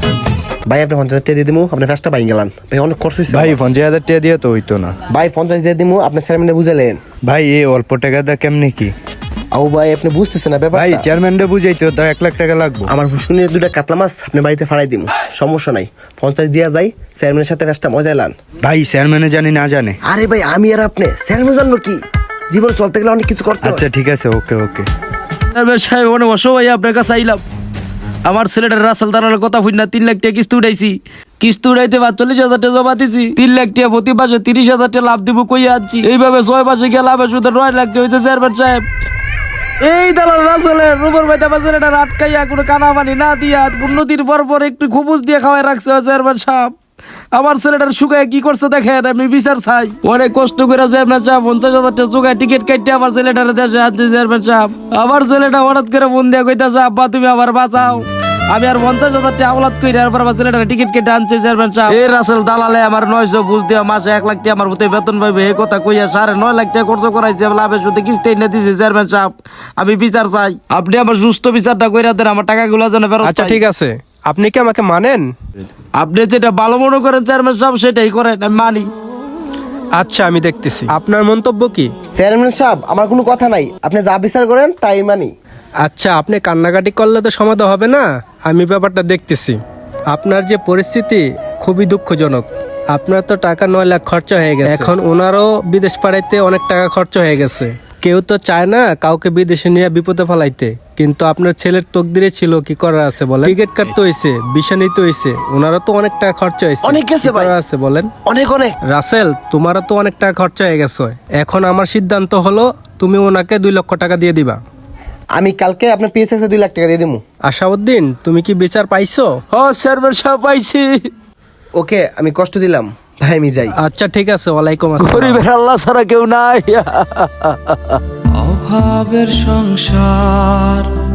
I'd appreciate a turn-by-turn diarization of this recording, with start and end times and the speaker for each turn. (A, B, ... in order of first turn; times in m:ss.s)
0:00.6-0:03.6 A
0:03.3-0:04.9 B
0:05.1-0:07.0 A
0:07.2-0:08.9 B
0:09.5-0:11.1 A
0:10.7-0:12.9 B
0:12.9-0:18.3 A
0:18.6-0:20.0 B
0:20.0-0:22.0 A
0:22.5-0:23.8 A
0:23.6-0:24.9 B
0:25.5-0:27.4 C
0:28.2-0:38.8 C
0:39.8-0:46.7 C
0:47.3-1:13.6 C
1:13.2-1:15.3 D
1:16.0-1:18.9 C
1:19.9-1:21.9 D
1:22.1-1:25.3 A
1:25.8-1:29.6 D
1:30.1-1:48.1 D
1:46.8-1:47.5 A
1:48.2-1:48.7 A
1:48.9-1:54.6 D
1:55.3-1:57.2 A
1:57.4-1:59.3 D
1:59.5-2:00.8 C
2:01.8-2:03.7 A
2:03.8-2:05.4 D
2:05.0-2:07.9 C
2:08.4-2:10.8 E